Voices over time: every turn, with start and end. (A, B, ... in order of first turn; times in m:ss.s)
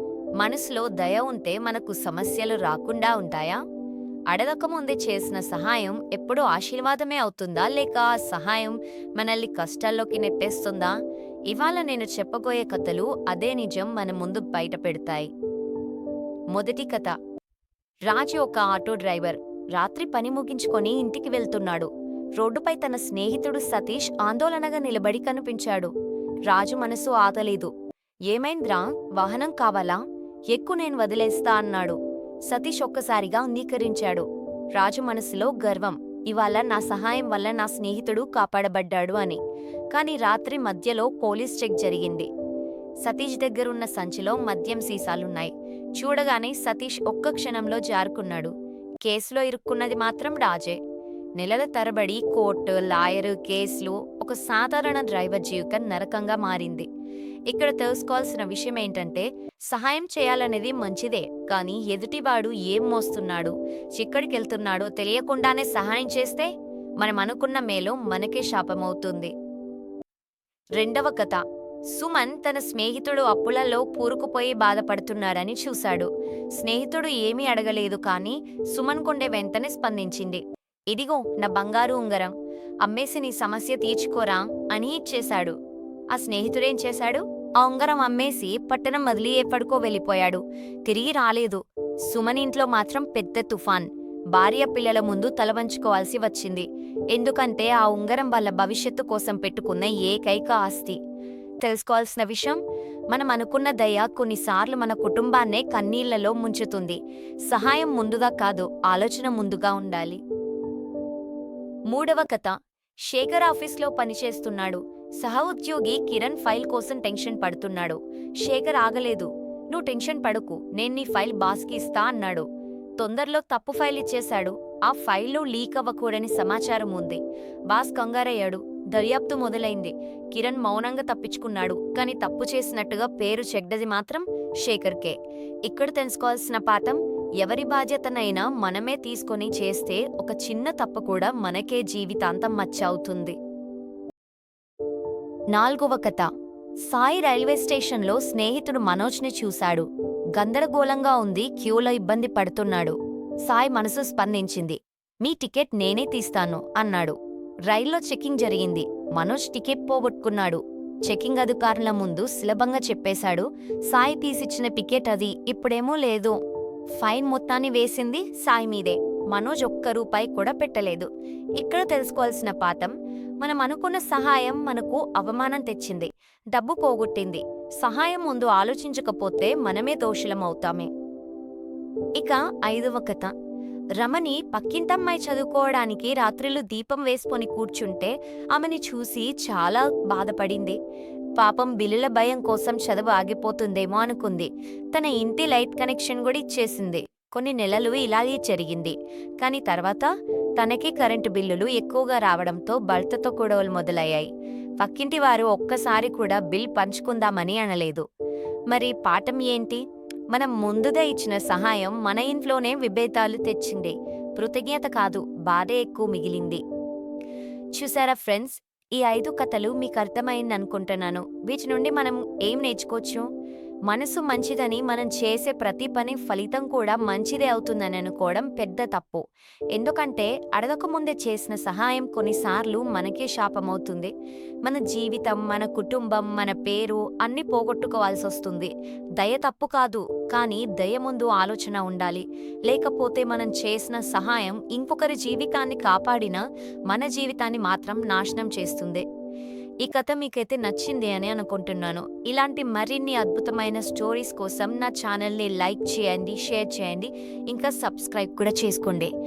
0:00.4-0:03.6 A
0:04.3-0:11.0 A
0:11.5-0:15.3 A
0:16.5-0:17.1 A
0:18.1-0:25.9 A
0:26.5-0:27.7 A
0:28.3-0:39.4 A
0:39.9-0:42.3 A
0:43.0-0:48.5 A
0:49.0-0:50.8 A
0:51.4-0:56.9 A
0:57.5-1:09.3 A
1:10.8-1:25.6 A
1:26.1-1:41.0 A
1:41.6-1:50.2 A
1:51.9-2:23.4 A
2:25.5-2:26.3 A
2:26.9-2:37.2 A
2:37.7-2:46.4 A
2:47.0-3:00.9 A
3:02.2-3:03.3 A
3:04.0-3:10.8 A
3:11.4-3:28.1 A
3:28.7-3:36.6 A
3:37.8-3:43.3 A
3:43.9-3:49.2 A
3:49.8-3:54.1 A
3:54.6-4:09.1 A
4:09.8-4:19.1 A